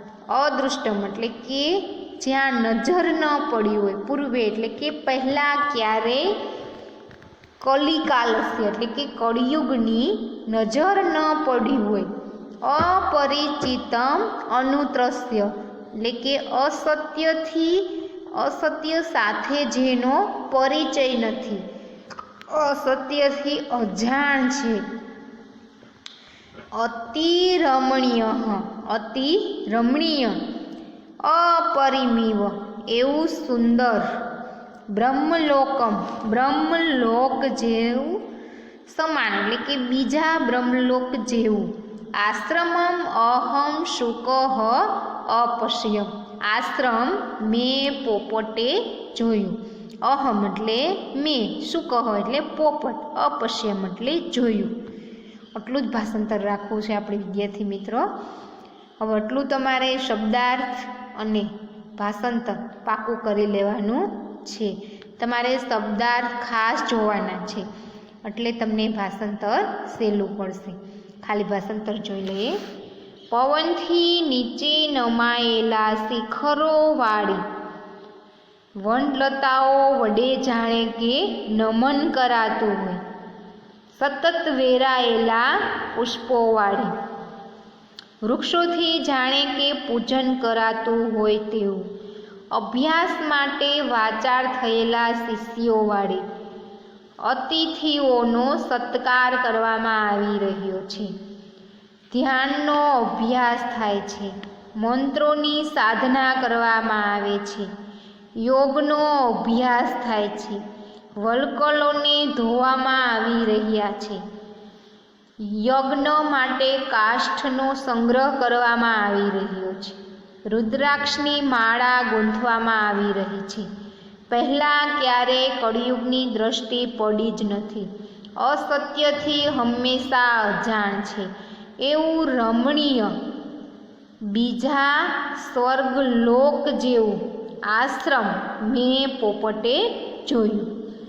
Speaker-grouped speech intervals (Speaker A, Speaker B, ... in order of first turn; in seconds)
Speaker A: 0.3-6.3, 7.6-12.1, 12.6-21.6, 22.5-24.8, 26.7-30.4, 31.2-34.1, 34.9-38.3, 38.9-54.8, 55.5-58.1, 59.0-67.7, 68.2-72.6, 73.3-77.5, 78.8-83.0, 84.0-86.9, 88.2-91.9, 92.5-96.2, 97.2-101.1, 102.1-107.7, 108.4-110.6, 111.2-114.2, 115.4-120.0, 120.5-123.7, 124.3-127.9, 128.4-131.3, 131.8-133.2, 134.3-140.7